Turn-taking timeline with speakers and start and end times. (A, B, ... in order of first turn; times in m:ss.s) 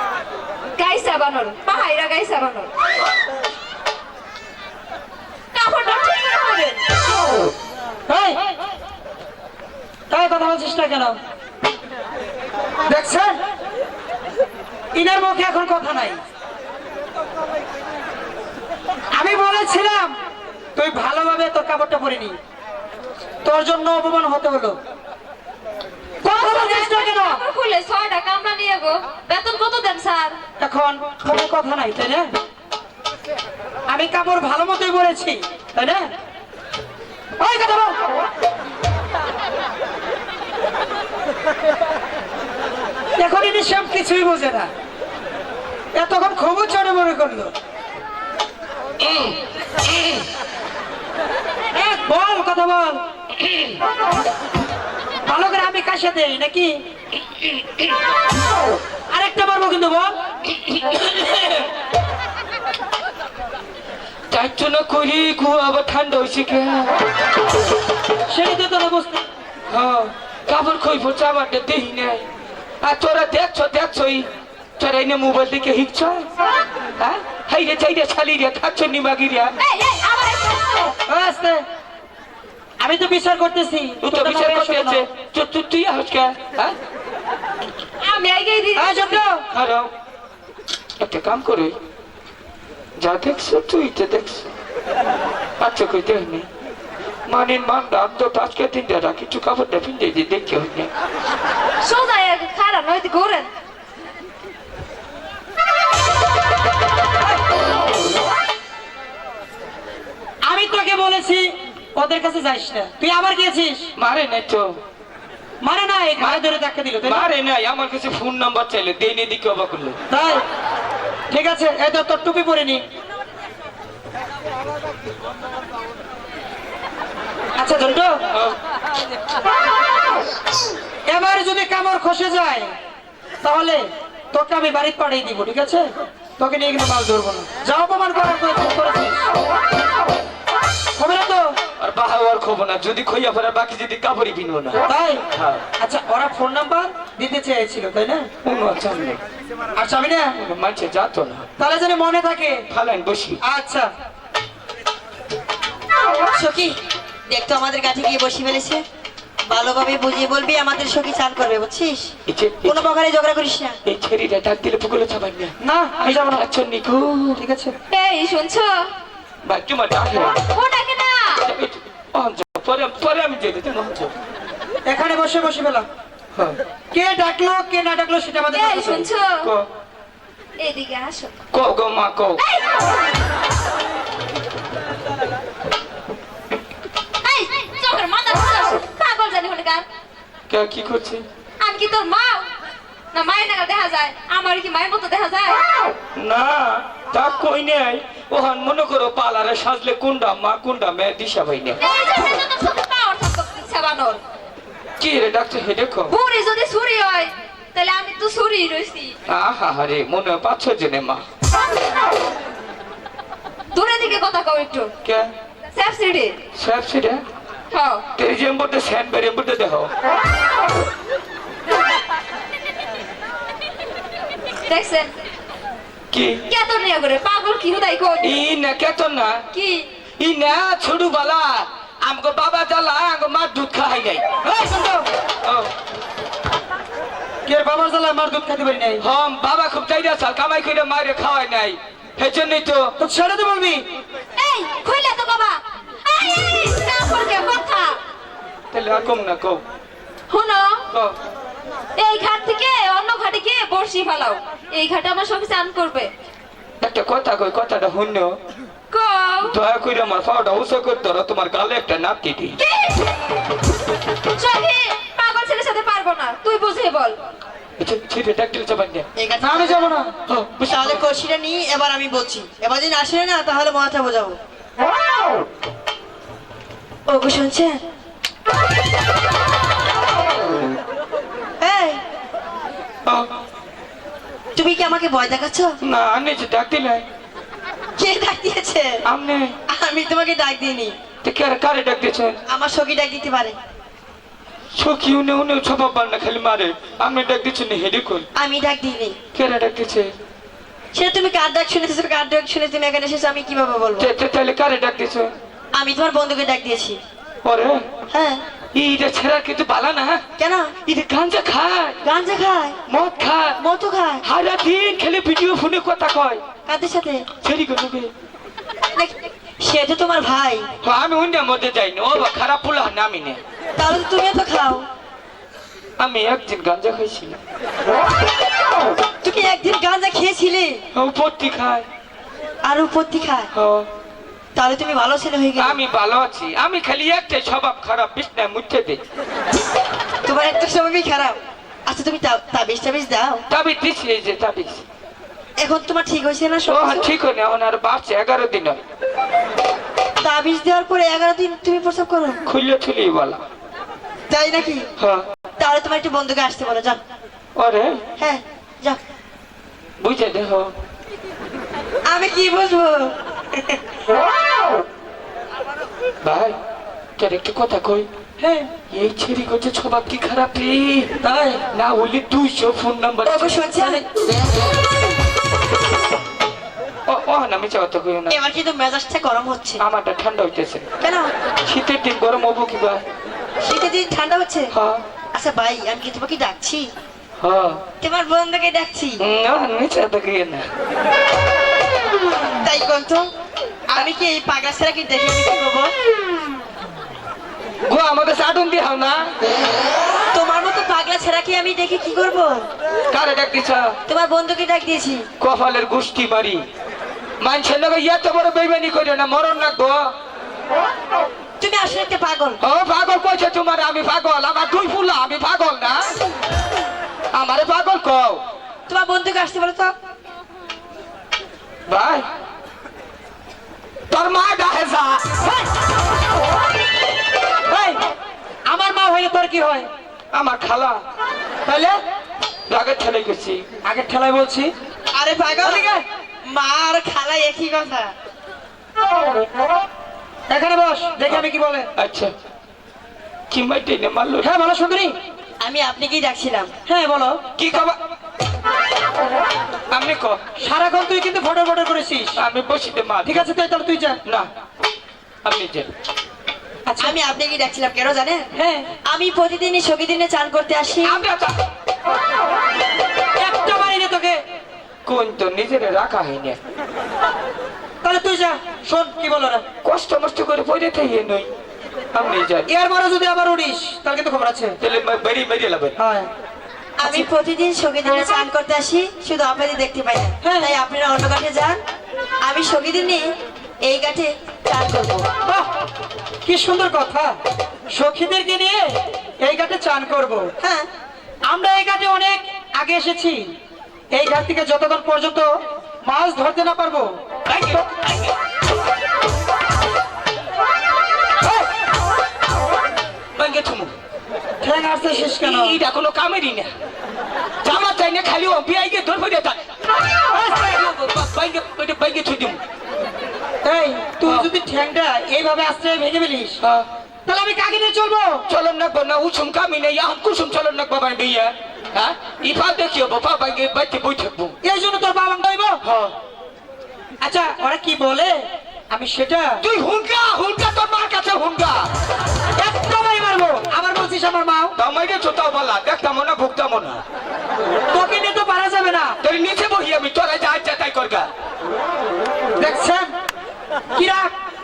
0:00.8-0:02.7 A
0:05.5-0:06.8 A
0:08.1-0:08.4 B
0:10.1-0:11.2 B
0:12.9-0:13.4 B
0:15.0-0:16.2 B
0:19.2-0:20.2 B
0:20.8-0:22.4 B
0:23.4-0:24.8 B
0:26.2-0:27.4 B
0:26.3-0:30.4 A
0:30.6-0:32.3 B
0:33.9-0:36.1 B
0:37.4-0:38.0 B
0:43.2-0:44.7 B
0:46.0-0:47.5 B
0:49.0-0:49.4 C
0:51.8-0:53.0 B
0:55.3-0:56.8 B
0:59.1-1:00.1 B
1:00.6-1:01.7 C
1:04.3-1:07.0 C
1:08.3-1:09.2 B
1:09.7-1:12.2 C
1:12.8-1:14.3 C
1:14.8-1:16.3 C
1:17.0-1:19.5 C
1:19.6-1:20.9 A
1:21.1-1:21.6 B
1:22.8-1:25.0 B
1:24.0-1:26.8 C
1:28.0-1:29.2 A
1:28.8-1:29.4 B
1:29.5-1:29.9 C
1:31.0-1:31.8 C
1:33.0-1:34.5 C
1:35.6-1:36.5 C
1:37.3-1:40.9 C
1:41.8-1:43.5 A
1:50.5-1:53.9 B
1:54.0-1:54.8 C
1:55.6-1:57.3 B
1:56.2-1:56.4 C
1:57.0-2:00.0 C
2:00.1-2:00.4 B
2:01.3-2:02.8 B
2:07.6-2:08.2 B
2:11.1-2:12.7 B
2:13.4-2:13.8 B
2:14.3-2:19.3 B
2:21.0-2:21.5 B
2:21.8-2:25.6 C
2:24.9-2:25.2 B
2:25.8-2:28.3 B
2:28.4-2:29.2 C
2:29.8-2:30.4 B
2:30.4-2:31.5 C
2:31.6-2:32.6 B
2:32.7-2:33.4 C
2:33.4-2:33.9 B
2:36.3-2:36.8 D
2:37.3-2:38.8 D
2:39.5-2:42.1 D
2:42.3-2:42.9 C
2:42.6-2:43.8 D
2:43.8-2:47.4 C
2:45.6-2:46.4 B
2:47.4-2:47.7 B
2:47.9-2:48.9 A
2:49.4-2:50.4 C
2:50.5-2:51.4 A
2:51.4-2:54.1 C
2:54.9-2:55.9 B
2:56.9-2:59.1 B
2:58.5-2:59.5 A
2:59.4-2:59.7 C
3:00.6-3:01.3 A
3:01.5-3:02.4 C
3:02.4-3:02.7 A
3:07.2-3:09.8 A
3:10.5-3:11.2 C
3:11.6-3:12.5 A
3:13.1-3:15.6 A
3:16.2-3:21.8 C
3:21.8-3:24.2 A
3:25.0-3:26.1 C
3:26.1-3:29.2 A
3:29.3-3:31.2 C
3:33.7-3:34.9 A
3:35.0-3:35.3 C
3:35.7-3:36.4 A
3:36.6-3:37.2 C
3:37.7-3:38.1 A
3:38.2-3:39.9 C
3:44.7-3:45.1 A
3:46.1-3:46.4 C
3:46.5-3:48.3 A
3:48.2-3:49.4 C
3:49.5-3:49.8 A
3:50.2-3:54.2 C
3:54.4-3:55.1 B
3:57.5-3:59.0 B
3:59.0-4:03.0 C
4:03.0-4:03.8 B
4:04.4-4:08.0 A
4:08.7-4:09.6 C
4:10.3-4:10.8 A
4:10.9-4:11.2 C
4:12.0-4:16.1 A
4:16.8-4:18.4 C
4:18.9-4:19.5 A
4:19.4-4:22.6 C
4:22.6-4:23.1 A
4:24.3-4:27.2 A
4:27.8-4:29.1 C
4:29.2-4:29.7 D
4:29.4-4:30.1 B
4:30.3-4:31.0 C
4:30.6-4:34.4 D
4:37.1-4:37.8 D
4:41.6-4:42.0 D
4:44.6-4:45.8 D
4:45.8-4:47.0 C
4:48.0-4:49.0 D
4:49.0-4:49.6 C
4:49.7-4:51.0 D
4:51.2-4:52.4 C
4:52.5-4:53.6 D
4:54.7-4:58.3 C
4:58.4-4:59.2 D
4:59.4-5:00.1 C
5:00.9-5:04.1 D
5:04.0-5:05.3 C
5:05.7-5:07.0 D
5:07.4-5:07.8 C
5:08.1-5:08.4 D
5:08.7-5:10.2 C
5:10.4-5:10.7 D
5:10.9-5:12.0 C
5:12.0-5:12.8 D
5:12.9-5:13.6 C
5:13.6-5:14.2 D
5:14.2-5:16.4 C
5:16.7-5:17.3 D
5:17.4-5:18.1 C
5:19.0-5:20.7 D
5:20.8-5:23.4 C
5:23.8-5:24.9 D
5:26.0-5:27.4 C
5:29.2-5:30.8 D
5:30.9-5:31.9 C
5:32.6-5:33.5 D
5:33.5-5:33.9 C
5:34.6-5:35.8 D
5:35.6-5:39.0 C
5:40.2-5:43.4 D
5:43.5-5:44.8 C
5:45.6-5:47.1 D
5:46.7-5:48.8 C
5:50.2-5:52.4 D
5:52.5-5:53.4 C
5:54.3-5:54.9 D
5:55.0-5:55.3 C
5:55.6-5:57.0 D
5:57.6-5:58.0 C
5:58.2-5:59.0 D
6:00.0-6:00.7 C
6:02.1-6:03.8 D
6:06.2-6:06.6 C
6:07.2-6:08.1 C
6:08.4-6:08.7 B
6:08.9-6:11.2 C
6:11.2-6:11.6 B
6:11.7-6:14.0 C
6:13.2-6:14.2 D
6:17.1-6:18.4 C
6:18.3-6:19.8 D
6:19.8-6:20.9 C
6:21.0-6:21.3 D
6:21.7-6:23.0 C
6:23.6-6:24.7 D
6:24.7-6:25.0 C
6:25.3-6:26.9 D
6:27.4-6:27.8 C
6:28.0-6:29.2 D
6:29.2-6:30.7 C
6:32.6-6:33.3 D
6:33.9-6:35.9 D
6:37.8-6:39.3 C
6:40.3-6:42.7 D
6:43.1-6:44.0 C
6:44.1-6:45.3 D
6:45.4-6:46.6 C
6:47.4-6:50.1 C
6:51.6-6:52.6 D
6:52.6-6:56.2 C
6:57.3-6:58.4 C
6:58.9-6:59.9 D
7:01.9-7:02.3 C
7:04.1-7:05.6 C
7:07.7-7:08.0 B
7:08.7-7:09.9 B
7:10.3-7:11.0 C
7:11.7-7:12.0 B
7:12.7-7:13.6 C
7:13.8-7:14.7 B
7:15.1-7:15.9 D
7:15.6-7:16.0 B
7:16.5-7:18.1 D
7:20.5-7:21.9 B
7:22.0-7:22.3 C
7:23.5-7:24.5 C
7:24.4-7:25.1 B
7:25.6-7:26.7 D
7:26.9-7:27.4 B
7:27.6-7:28.0 C
7:29.9-7:30.4 C
7:30.6-7:32.4 B
7:32.4-7:33.5 C
7:33.2-7:34.2 B
7:35.4-7:35.9 C
7:36.9-7:37.2 B
7:37.0-7:38.5 D
7:38.5-7:38.9 B
7:39.0-7:41.2 D
7:41.0-7:41.6 C
7:43.4-7:44.4 B
7:45.0-7:46.6 C
7:48.0-7:49.6 B
7:49.8-7:51.5 C
7:52.1-7:52.7 C
7:52.7-7:54.8 B
7:54.8-7:56.0 C
7:56.0-7:56.3 B
7:57.0-8:01.8 D
8:00.4-8:00.7 B
8:02.4-8:03.2 D
8:03.8-8:05.3 D
8:06.4-8:07.3 B
8:07.9-8:08.8 B
8:09.4-8:10.5 B
8:10.6-8:10.9 D
8:11.5-8:13.4 B
8:14.1-8:15.5 B
8:16.1-8:17.1 B
8:17.5-8:18.4 C
8:23.4-8:23.9 C
8:24.6-8:25.8 B
8:25.2-8:26.7 C
8:27.6-8:32.6 C
8:30.3-8:30.8 B
8:33.6-8:36.6 B
8:34.2-8:34.5 C
8:36.6-8:36.9 C
8:37.3-8:38.4 B
8:38.5-8:44.6 C
8:44.6-8:45.8 B
8:45.8-8:46.2 C
8:47.2-8:48.4 B
8:48.9-8:49.6 B
8:49.6-8:51.8 C
8:52.6-8:54.7 B
8:54.8-8:57.0 C
8:57.9-8:59.2 B
8:59.2-9:01.3 C
9:02.6-9:03.1 B
9:03.9-9:04.3 B